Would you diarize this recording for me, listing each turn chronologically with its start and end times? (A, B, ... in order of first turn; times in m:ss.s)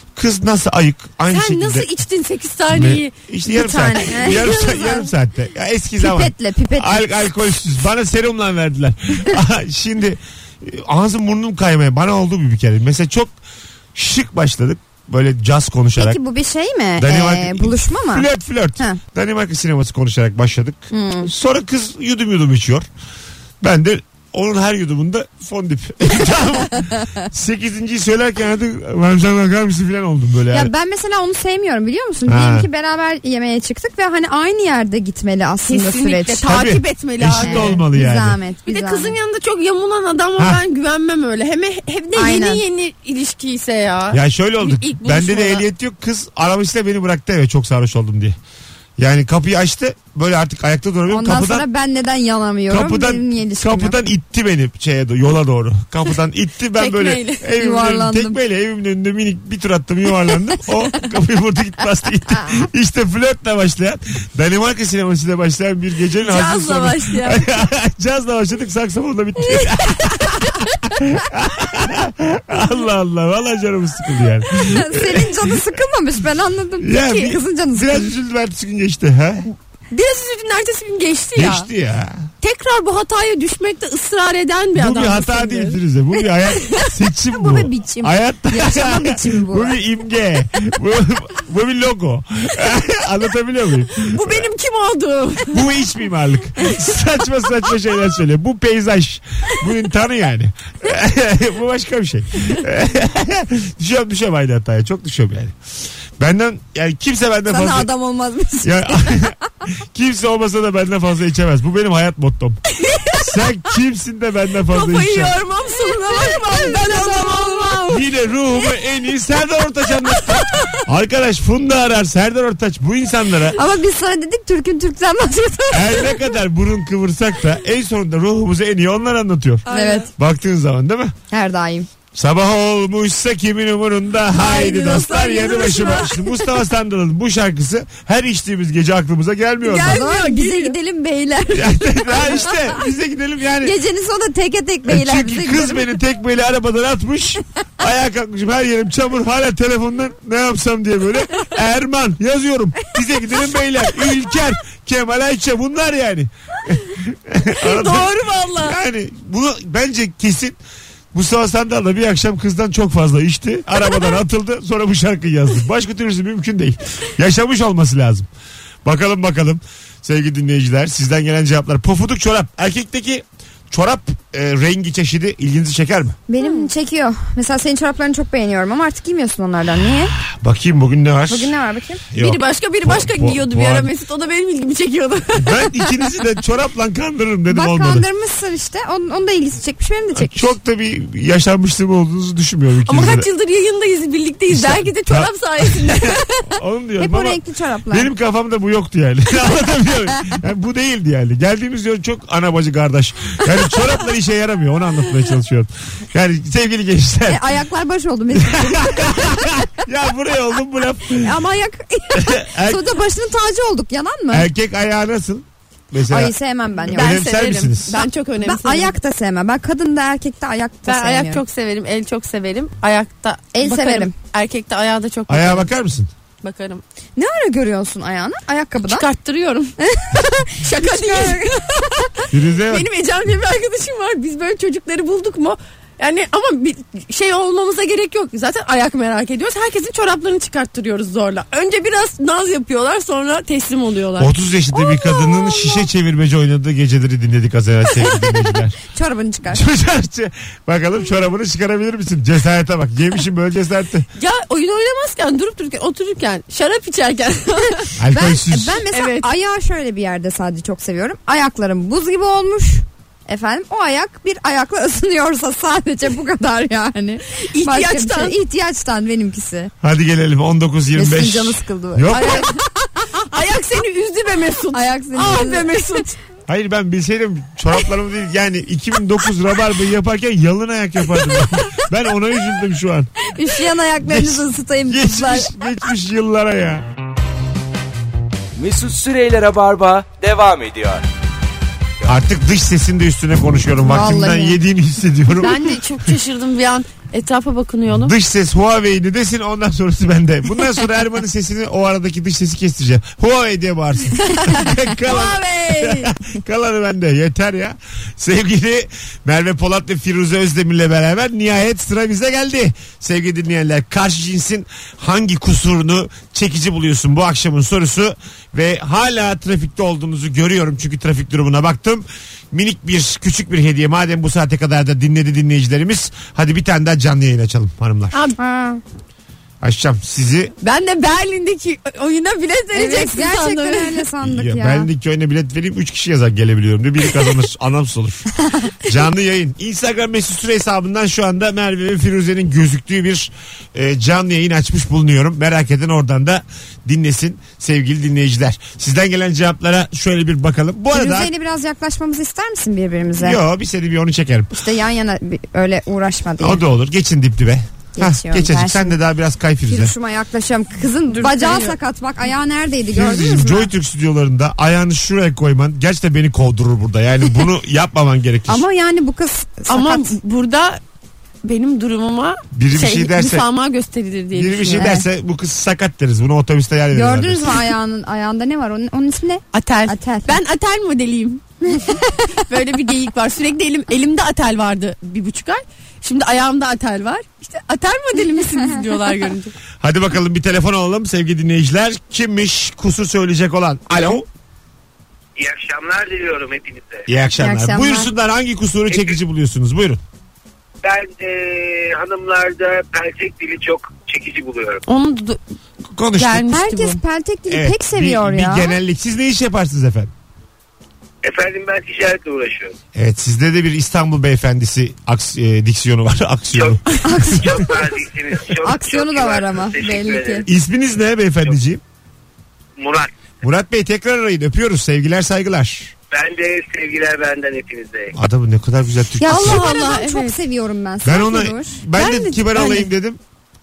0:00.2-0:01.9 A
0:01.3-0:05.0 B
0:02.7-0:13.3 A
0:03.9-0:04.8 C
0:06.0-0:07.0 C
0:13.9-0:16.2 A
0:16.0-0:18.3 C
0:17.0-0:22.9 A
0:20.9-0:21.3 C
0:23.6-0:30.7 A
0:30.5-0:36.5 C
0:32.2-0:32.7 A
0:35.7-0:37.8 B
0:36.5-0:38.4 A
0:37.4-0:39.2 C
0:38.7-0:45.6 B
0:42.1-0:42.6 C
0:44.1-0:48.4 A
0:49.0-0:51.6 A
0:51.1-0:54.0 C
0:52.7-1:15.6 A
0:56.8-0:57.4 B
0:57.5-0:58.4 C
1:06.2-1:07.4 B
1:14.6-1:18.1 C
1:16.8-1:19.4 A
1:19.9-1:21.7 B
1:21.4-1:22.3 A
1:22.4-1:25.8 B
1:24.7-1:34.5 A
1:27.3-1:29.8 C
1:34.0-1:35.6 B
1:35.5-1:45.5 A
1:46.2-1:47.9 A
1:47.5-1:49.3 C
1:48.6-1:52.6 A
1:52.7-1:53.4 B
1:53.1-1:55.4 A
1:54.7-1:58.0 B
1:55.7-1:57.8 C
1:57.9-2:03.6 A
2:00.2-2:00.6 B
2:03.5-2:06.2 C
2:05.7-2:11.1 A
2:09.7-2:10.1 B
2:09.7-2:10.1 C
2:11.3-2:11.9 C
2:12.1-2:20.0 A
2:14.3-2:16.2 B
2:15.4-2:15.9 C
2:19.6-2:20.8 B
2:19.7-2:22.5 C
2:21.5-2:23.7 A
2:23.6-2:25.9 C
2:24.8-2:40.6 A
2:37.5-2:38.8 B
2:41.1-2:48.3 A
2:48.8-2:56.2 A
2:56.3-3:00.2 C
2:56.4-2:56.7 B
3:00.2-3:01.5 A
3:01.3-3:02.0 C
3:02.1-3:03.9 A
3:02.2-3:05.6 B
3:05.4-3:08.0 A
3:07.5-3:10.5 C
3:10.1-3:13.3 A
3:12.8-3:16.5 B
3:14.5-3:17.4 A
3:17.0-3:18.1 C
3:17.9-3:27.4 A
3:27.3-3:29.7 C
3:28.4-3:31.3 A
3:31.1-3:34.5 C
3:32.1-3:32.8 A
3:34.3-3:36.3 A
3:36.1-3:37.2 C
3:36.8-3:38.0 A
3:36.9-3:38.9 B
3:38.4-3:41.4 C
3:40.9-3:45.7 B
3:43.5-3:44.1 C
3:45.3-3:46.1 A
3:46.4-3:46.8 B
3:47.2-3:49.0 C
3:48.8-3:49.7 B
3:49.8-3:51.6 C
3:50.6-4:04.3 B
3:52.3-3:52.9 A
4:04.2-4:08.8 A
4:04.8-4:05.8 C
4:08.0-4:09.6 C
4:09.5-4:14.1 A
4:14.2-4:17.9 B
4:18.0-4:18.8 A
4:18.1-4:29.7 C
4:18.9-4:19.3 B
4:27.4-4:28.4 B
4:29.8-4:32.5 A
4:30.9-4:32.6 C
4:32.1-4:32.6 B
4:33.1-4:36.1 B
4:34.7-4:36.1 C
4:36.5-4:43.2 A
4:43.2-4:45.6 C
4:44.0-4:46.8 A
4:48.6-4:51.0 D
4:52.0-4:55.7 A
4:53.8-4:54.6 C
4:55.4-4:58.1 B
4:57.9-5:28.2 A
5:04.3-5:06.1 B
5:28.1-5:28.4 B
5:28.4-5:28.8 C
5:29.6-5:30.5 A
5:30.6-5:34.0 B
5:32.7-5:34.9 C
5:34.2-5:38.3 A
5:38.8-5:51.3 A
5:50.9-5:53.4 C
5:53.2-5:54.5 A
5:54.5-5:56.6 C
5:56.4-5:59.9 A
5:58.0-5:59.0 C
5:59.7-6:03.7 C
6:01.1-6:01.8 B
6:02.9-6:08.6 A
6:08.5-6:10.2 C
6:09.7-6:10.8 B
6:11.4-6:14.9 B
6:12.5-6:13.4 A
6:14.3-6:17.7 A
6:14.7-6:15.0 C
6:16.9-6:20.4 C
6:19.5-6:29.5 B
6:21.7-6:22.4 C
6:29.8-6:34.2 A
6:35.4-6:37.0 E
6:37.0-6:40.0 A
6:37.4-6:38.1 C
6:38.9-6:39.2 E
6:40.8-6:44.8 E
6:44.9-6:45.4 B
6:45.9-6:46.4 A
6:46.2-6:47.0 B
6:46.5-6:48.8 C
6:47.5-6:50.1 A
6:51.2-6:52.7 E
6:52.9-6:56.8 A
6:56.5-7:00.5 E
6:57.0-6:57.8 C
6:58.6-7:00.4 C
7:00.4-7:01.8 A
7:02.8-7:03.1 E
7:03.4-7:05.9 A
7:06.1-7:08.1 E
7:08.1-7:09.7 A
7:09.2-7:11.8 C
7:09.2-7:10.4 B
7:11.0-7:13.2 A
7:12.0-7:12.9 B